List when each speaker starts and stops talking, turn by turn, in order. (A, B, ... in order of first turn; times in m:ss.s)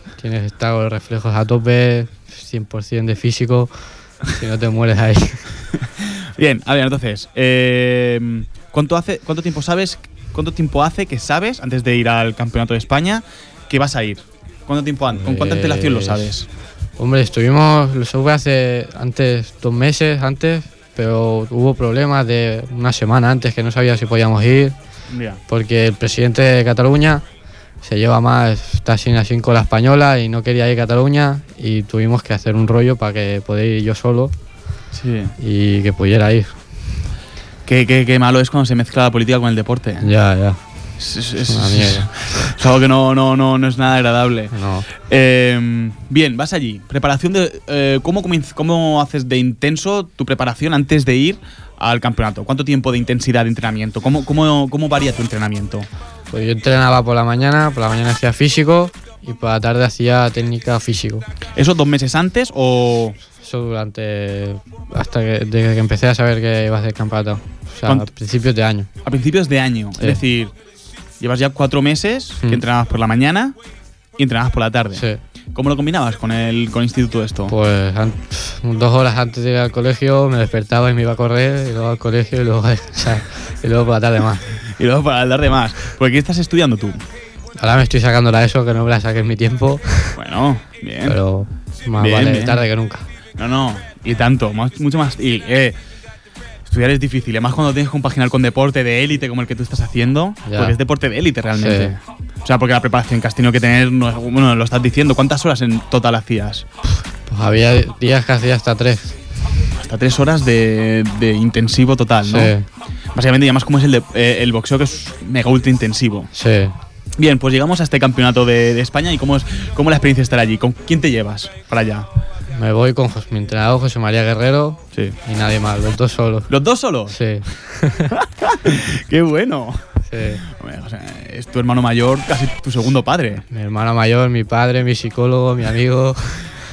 0:00.2-0:05.6 A
0:06.4-0:16.5 B
0:15.2-0:16.3 A
0:17.0-0:24.8 A
0:25.1-0:25.4 B
0:25.5-0:27.2 A
0:27.8-0:34.4 A
0:34.9-0:35.3 B
0:35.4-0:36.9 A
0:37.7-0:40.1 B
0:40.0-0:40.9 A
0:41.0-0:55.9 B
0:41.5-0:42.5 A
0:44.5-0:44.9 A
0:56.3-1:01.2 A
1:01.6-1:03.2 B
1:03.3-1:08.9 A
1:07.8-1:08.1 B
1:09.0-1:10.5 B
1:11.2-1:13.6 B
1:14.2-1:17.6 B
1:14.9-1:15.2 A
1:17.5-1:24.6 A
1:24.8-1:27.0 B
1:27.6-1:30.2 A
1:30.2-1:31.2 B
1:31.1-1:33.1 A
1:32.0-1:32.6 B
1:33.4-1:35.8 B
1:36.7-1:46.7 B
1:40.5-1:40.8 A
1:41.6-1:42.0 A
1:47.3-1:49.2 A
1:49.8-1:52.6 B
1:52.3-1:52.7 A
1:53.1-1:56.3 B
1:56.3-1:56.8 A
1:57.2-2:02.1 B
2:02.5-2:06.5 A
2:06.5-2:07.2 B
2:07.1-2:08.1 A
2:08.2-2:09.8 B
2:10.1-2:10.4 A
2:10.4-2:13.4 B
2:13.5-2:16.6 A